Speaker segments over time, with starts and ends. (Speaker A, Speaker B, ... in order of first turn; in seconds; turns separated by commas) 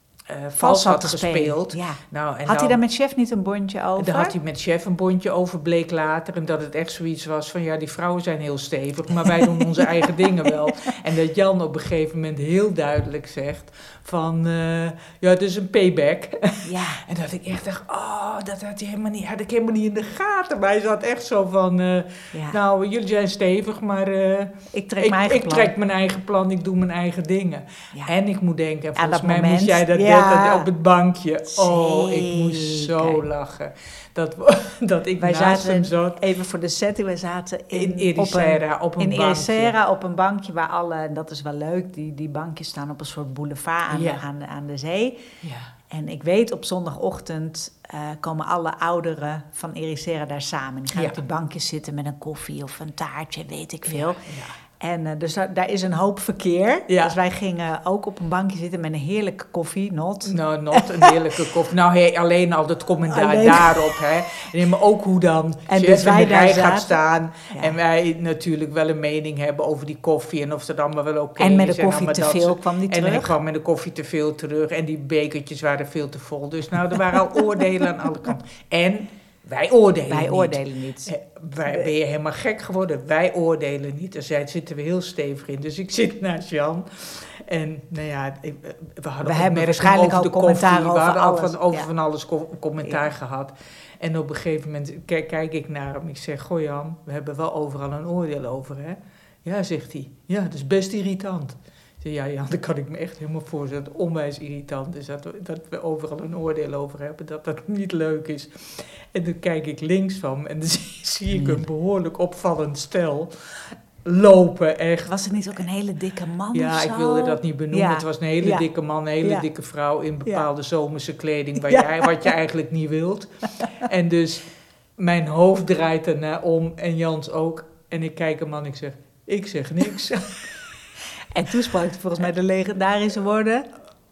Speaker A: 0.3-2.8, Speaker B: 0.6-4.3, Speaker A: 4.0-36.2, Speaker B: 9.8-10.7, Speaker B: 16.6-17.0, Speaker B: 22.3-22.6, Speaker B: 24.7-25.7, Speaker B: 29.0-30.7, Speaker B: 31.5-33.2, Speaker B: 35.2-45.2, Speaker A: 37.7-39.7, Speaker A: 43.9-44.2, Speaker A: 45.4-45.7, Speaker B: 45.9-54.3, Speaker A: 50.9-51.2, Speaker A: 53.9-54.6, Speaker B: 54.8-61.2, Speaker A: 56.9-57.1, Speaker A: 60.2-115.1, Speaker B: 63.1-64.1, Speaker B: 65.7-67.8, Speaker B: 71.4-73.4, Speaker B: 80.1-81.1, Speaker B: 89.2-91.9, Speaker B: 111.3-111.6, Speaker B: 115.1-118.7, Speaker A: 116.5-130.5, Speaker B: 121.6-122.2, Speaker B: 131.3-133.7